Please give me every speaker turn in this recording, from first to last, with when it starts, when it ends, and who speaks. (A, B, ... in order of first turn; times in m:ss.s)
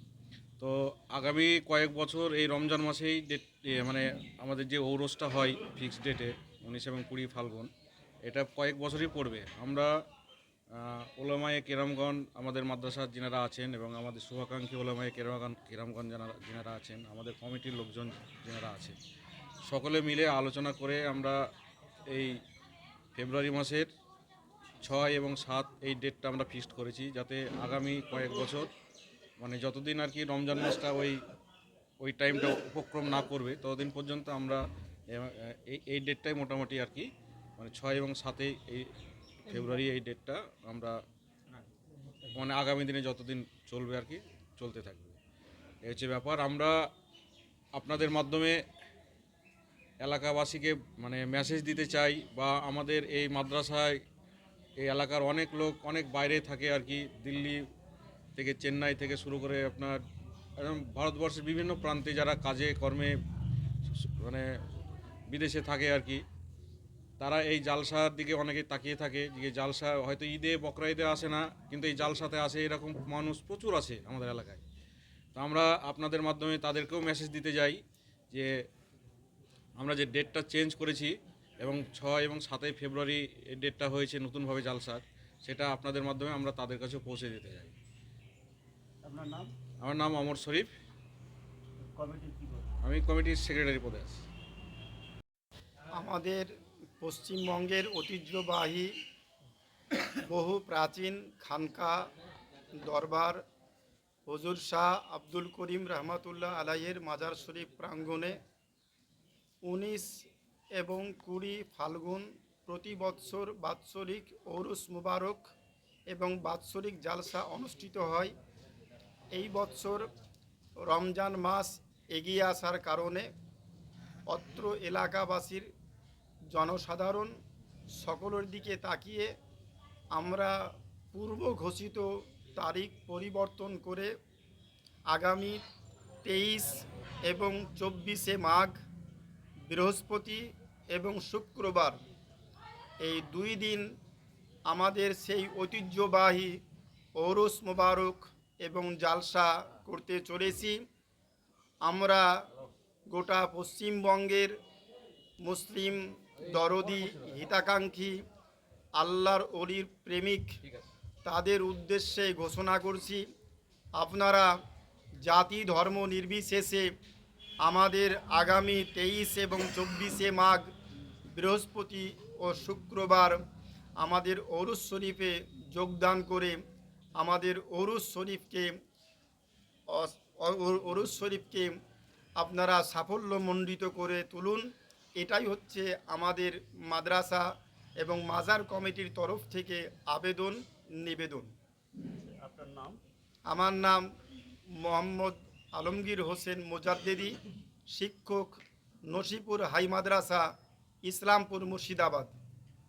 0:00.6-0:07.7 A
0:08.2-0:09.9 A
0:10.7-0:19.0 A
0:19.6-0:21.4 A
0:23.1-0:23.9 A
0:24.8-0:28.7 A
0:29.4-0:31.2 A
0:32.0-0:37.1 A
0:37.6-0:38.9 A
0:39.4-0:41.0 A
0:42.3-0:45.2 A
0:45.8-0:46.7 A
0:47.8-0:48.6 A
0:50.0-0:54.0 A
0:54.8-0:57.6 A
0:58.4-1:00.0 A
1:00.6-1:03.1 A
1:05.3-1:06.2 A
1:07.2-1:14.6 A
1:15.3-1:18.5 A
1:19.8-1:27.7 A
1:29.0-1:29.5 B
1:29.8-1:30.7 A
1:31.9-1:32.6 B
1:32.8-1:34.2 A
1:35.9-1:38.9 C
1:40.3-1:42.0 C
1:42.7-1:43.4 C
1:44.2-1:48.4 C
1:49.6-1:50.1 C
1:50.7-1:55.4 C
1:56.1-1:58.3 C
1:59.3-2:00.1 C
2:00.8-2:03.3 C
2:04.3-2:05.7 C
2:06.5-2:07.3 C
2:08.0-2:09.3 C
2:10.1-2:10.6 C
2:11.1-2:14.1 C
2:15.1-2:15.6 C
2:16.2-2:18.8 C
2:19.6-2:22.0 C
2:23.0-2:23.8 C
2:24.7-2:26.6 C
2:27.2-2:30.8 C
2:31.8-2:32.2 C
2:33.1-2:34.5 C
2:35.4-2:38.2 C
2:39.0-2:40.6 C
2:41.2-2:43.2 C
2:43.9-2:44.5 C
2:45.2-2:46.9 C
2:47.6-2:50.7 C
2:51.3-2:53.4 C
2:54.0-2:56.6 C
2:57.2-2:58.7 C
2:59.9-3:01.7 C
3:02.4-3:07.4 C
3:08.0-3:11.5 C
3:12.4-3:13.0 B
3:13.5-3:14.0 C
3:14.8-3:17.4 C
3:17.9-3:20.4 C
3:21.0-3:22.3 C